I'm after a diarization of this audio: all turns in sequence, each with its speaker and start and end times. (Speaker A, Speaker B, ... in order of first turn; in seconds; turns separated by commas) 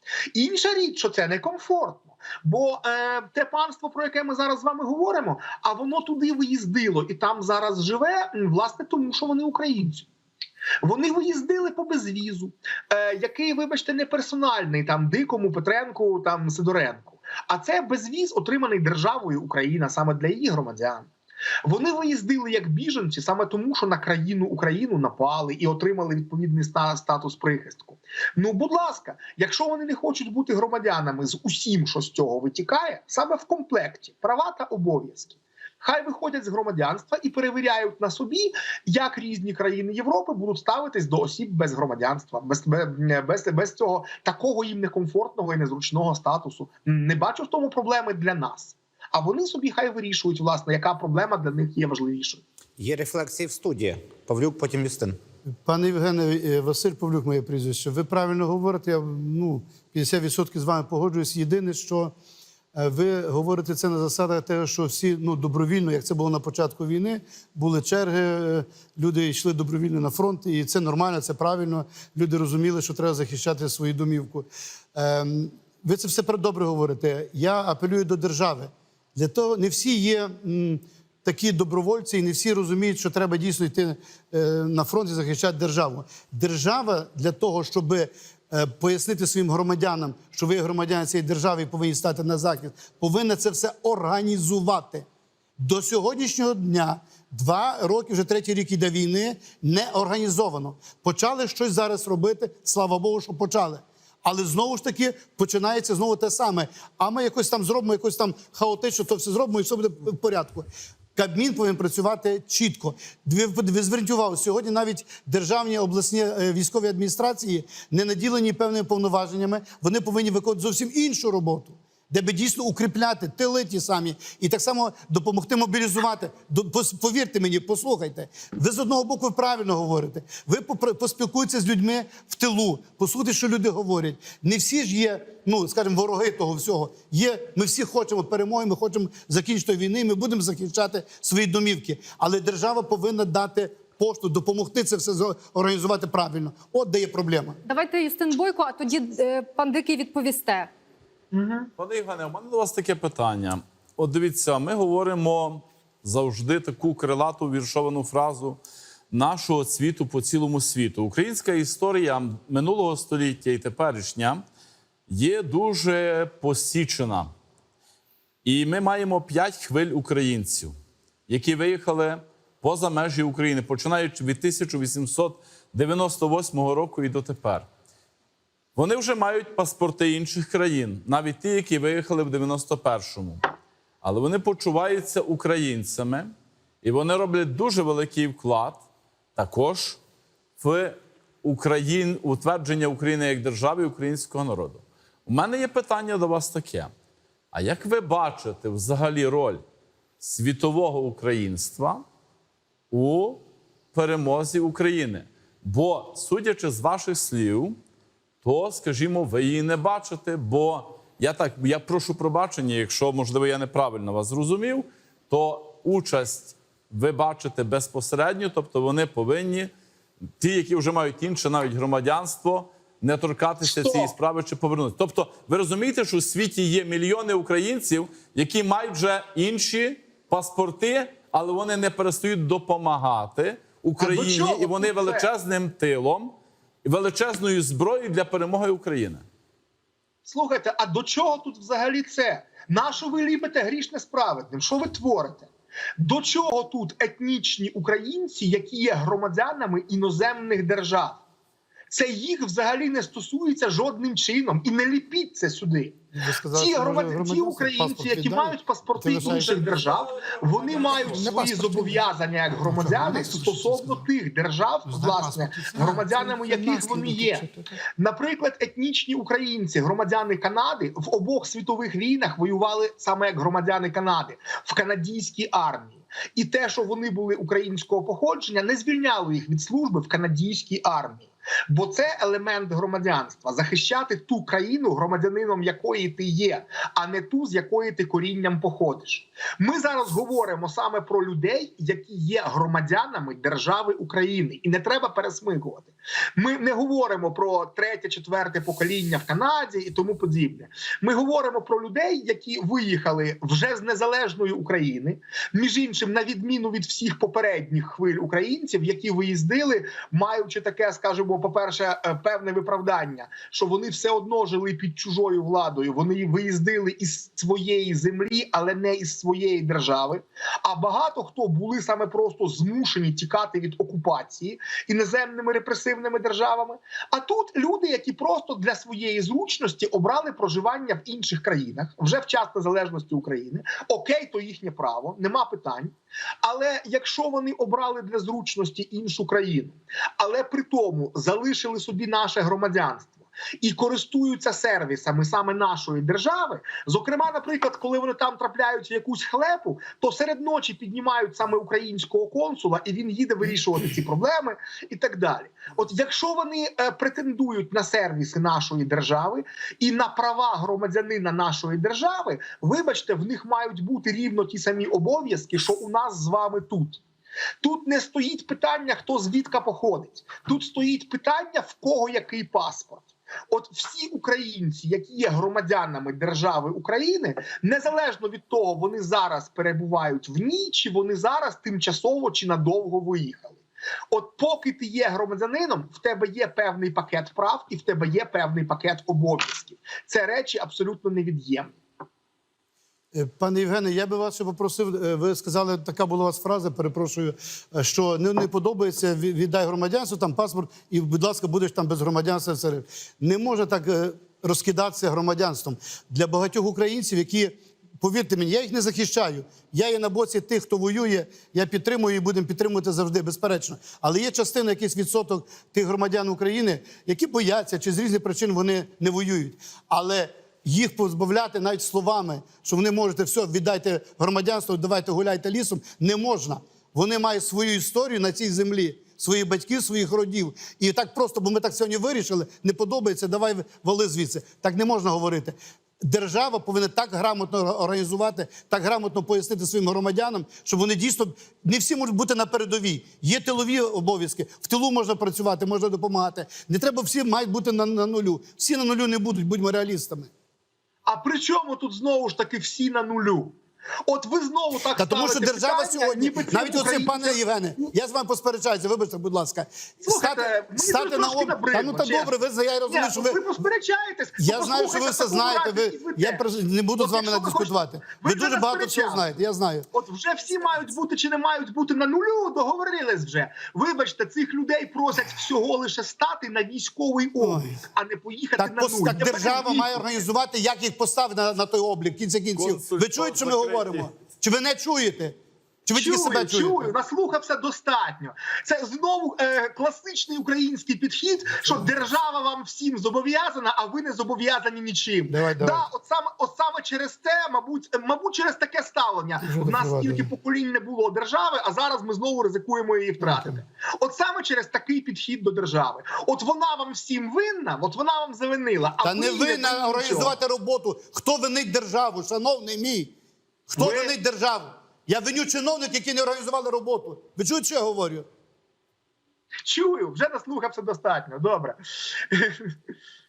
Speaker A: 0.3-10.1, Speaker A: 10.8-21.1, Speaker A: 21.6-52.4, Speaker B: 52.8-55.2, Speaker C: 55.6-62.1, Speaker C: 62.8-95.0, Speaker C: 95.6-147.6, Speaker D: 147.7-150.7, Speaker A: 151.3-151.7, Speaker E: 151.8-164.4, Speaker E: 165.1-167.3, Speaker E: 168.4-170.8, Speaker E: 171.3-177.7, Speaker E: 178.8-183.5, Speaker E: 184.0-188.8, Speaker E: 189.4-190.0, Speaker E: 190.6-196.9, Speaker E: 197.5-199.6, Speaker E: 200.2-202.0, Speaker E: 202.9-203.4, Speaker E: 203.9-207.8, Speaker E: 208.4-219.7, Speaker E: 220.4-239.2, Speaker A: 223.6-224.1, Speaker A: 234.0-235.3, Speaker A: 240.2-251.2, Speaker A: 251.9-256.0, Speaker C: 256.1-259.6, Speaker A: 256.5-367.0, Speaker E: 259.2-261.2, Speaker C: 261.4-261.9, Speaker C: 262.6-264.0, Speaker C: 264.9-267.5, Speaker A: 367.6-391.8, Speaker C: 393.1-450.3, Speaker A: 451.1-457.4, Speaker C: 454.9-463.4, Speaker A: 460.1-462.4, Speaker A: 462.9-469.3, Speaker C: 464.4-469.9, Speaker A: 469.9-480.1, Speaker C: 477.4-477.8, Speaker C: 478.6-486.9, Speaker E: 482.6-484.1, Speaker A: 485.9-510.4, Speaker C: 491.6-492.1, Speaker C: 495.3-495.9, Speaker C: 499.4-500.3, Speaker C: 503.2-503.6, Speaker C: 509.0-513.1, Speaker C: 513.7-518.3, Speaker A: 513.8-514.1, Speaker A: 519.6-522.7